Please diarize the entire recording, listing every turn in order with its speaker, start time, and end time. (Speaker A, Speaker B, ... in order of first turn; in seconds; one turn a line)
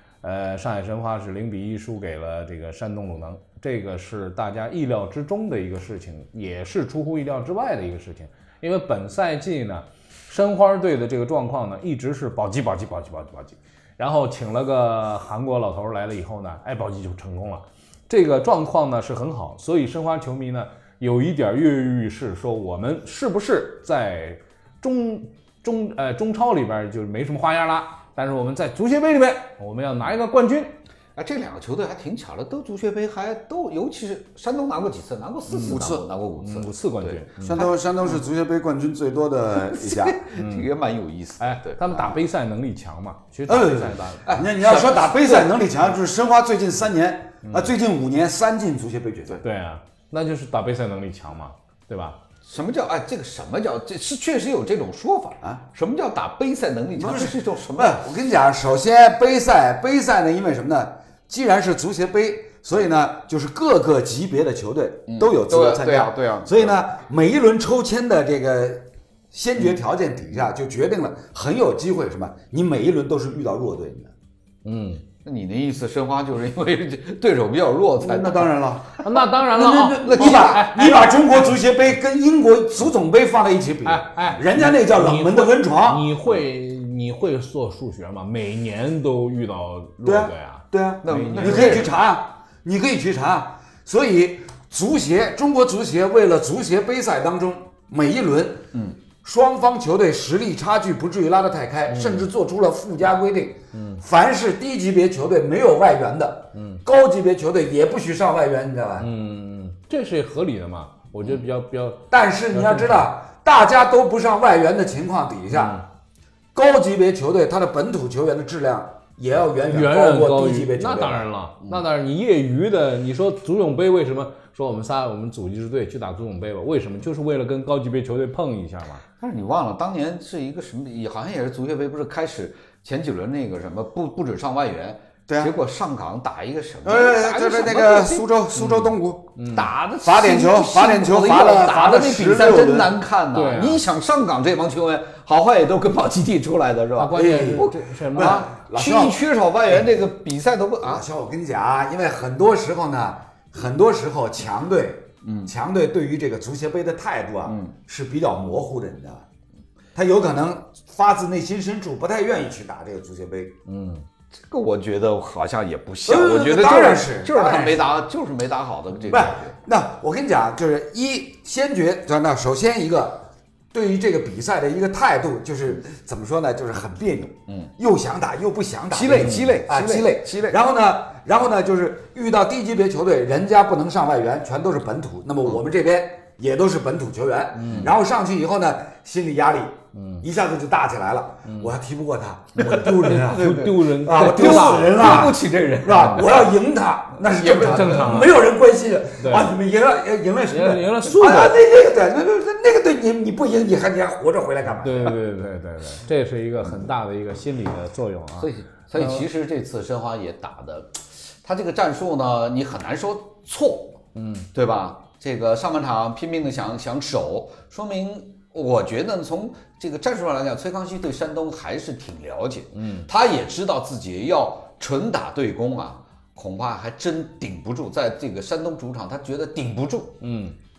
Speaker A: 0.2-30.7
Speaker B: 31.2-37.7
Speaker A: 35.5-37.6
Speaker C: 35.7-36.0
Speaker C: 37.5-40.2
Speaker B: 39.5-42.2
Speaker A: 40.4-40.7
Speaker A: 41.4-44.4
Speaker C: 43.5-49.4
Speaker B: 44.2-45.5
Speaker A: 49.4-52.2
Speaker B: 52.5-58.0
Speaker C: 57.0-74.1
Speaker B: 65.1-66.8
Speaker A: 74.6-75.0
Speaker B: 75.2-79.0
Speaker C: 78.0-78.9
Speaker A: 79.0-81.2
Speaker C: 79.5-86.1
Speaker B: 80.0-80.7
Speaker A: 83.8-91.9
Speaker C: 90.0-98.6
Speaker B: 91.0-91.9
Speaker C: 99.2-109.1
Speaker A: 101.9-102.3
Speaker A: 103.7-104.0
Speaker A: 106.5-106.8
Speaker A: 109.0-113.0
Speaker C: 112.1-115.8
Speaker A: 115.5-115.8
Speaker C: 116.5-121.3
Speaker A: 119.7-129.0
Speaker B: 129.2-138.9
Speaker C: 136.8-139.3
Speaker A: 139.3-139.7
Speaker B: 139.5-151.0
Speaker C: 140.0-142.9
Speaker A: 143.3-143.8
Speaker A: 147.0-148.4
Speaker C: 147.1-149.9
Speaker C: 150.8-159.2
Speaker B: 155.2-155.5
Speaker B: 157.4-157.7
Speaker C: 159.9-163.6
Speaker A: 163.7-164.0
Speaker B: 164.5-169.5
Speaker C: 166.1-167.9
Speaker C: 169.1-205.2
Speaker B: 178.9-180.6
Speaker A: 187.6-187.9
Speaker B: 187.6-187.9
Speaker A: 189.9-190.2
Speaker A: 191.4-191.7
Speaker B: 192.6-196.5
Speaker A: 192.6-195.3
Speaker B: 197.2-198.2
Speaker A: 197.5-198.3
Speaker A: 199.2-199.5
Speaker A: 200.5-201.6
Speaker A: 204.8-209.2
Speaker B: 208.4-214.0
Speaker A: 214.1-214.5
Speaker B: 214.5-230.2
Speaker A: 222.7-223.1
Speaker A: 230.2-230.5